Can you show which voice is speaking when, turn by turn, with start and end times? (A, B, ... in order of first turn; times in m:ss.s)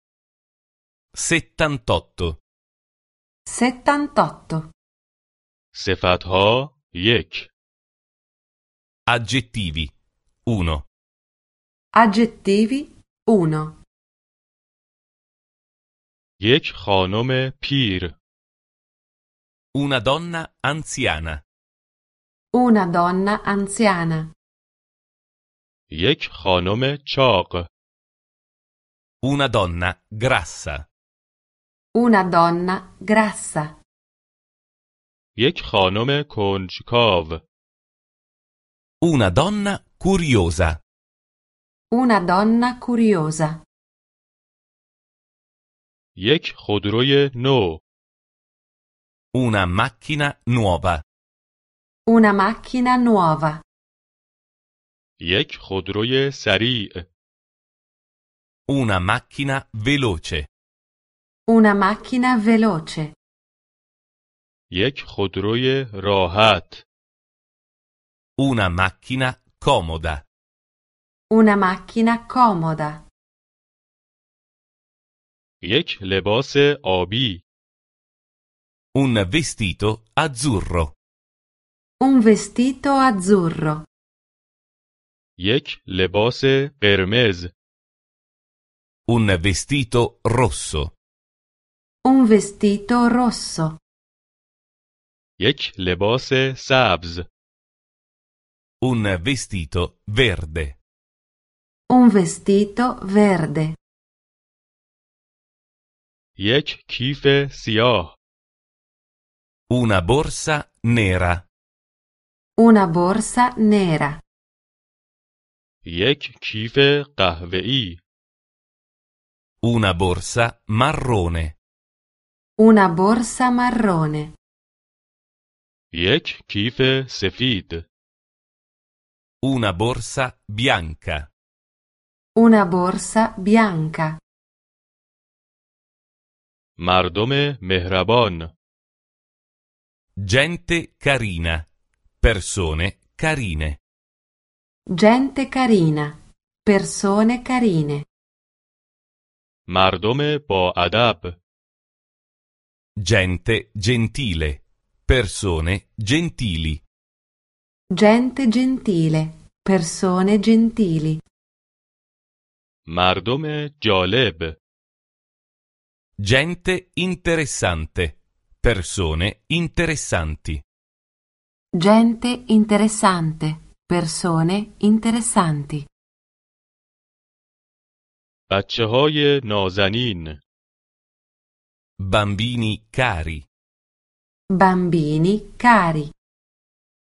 0:01.1-0:02.4 A
0:03.5-0:04.7 B
0:05.7-0:07.5 C
0:09.1-0:09.9 A
0:10.5-0:10.9 A
0:11.9-0:13.8 B
0:16.4-0:18.2 C
0:19.7-0:21.4 A
0:22.5-0:24.3 B
0:25.9-0:27.7 C
0:29.2-0:30.9 A
0:31.9-0:33.8 B
0:35.4-0:37.4 C
0:39.0-0:40.8 A
0:41.9-0:43.6 B
0:46.2-0:47.8 C
0:49.3-0:51.0 A
0:52.1-0:53.6 B
0:55.2-0:57.1 C
0:58.7-1:00.5 A
1:01.5-1:03.2 B
1:04.7-1:06.8 C
1:08.4-1:10.2 A
1:11.3-1:13.1 B
1:15.6-1:17.4 C
1:18.9-1:21.0 A
1:22.0-1:23.9 B
1:25.4-1:27.5 C
1:29.1-1:30.9 A
1:32.0-1:33.8 B
1:35.4-1:37.3 C
1:38.8-1:40.8 A
1:41.9-1:43.8 B
1:46.4-1:48.2 C
1:49.7-1:51.4 A
1:52.6-1:54.2 B
1:55.8-1:58.0 C
1:59.6-2:01.6 A
2:02.6-2:04.4 B
2:05.9-2:07.9 C
2:09.4-2:11.3 A
2:12.4-2:14.2 B
2:16.8-2:18.5 C
2:20.2-2:21.7 A
2:22.2-2:23.8 A
2:24.9-2:28.1 B
2:29.7-2:31.4 C
2:33.0-2:36.8 A
2:37.9-2:41.2 B
2:42.9-2:44.6 C
2:46.2-2:50.6 A
2:51.7-2:55.9 B
2:58.5-3:00.4 C
3:02.0-3:03.5 A
3:04.5-3:06.1 B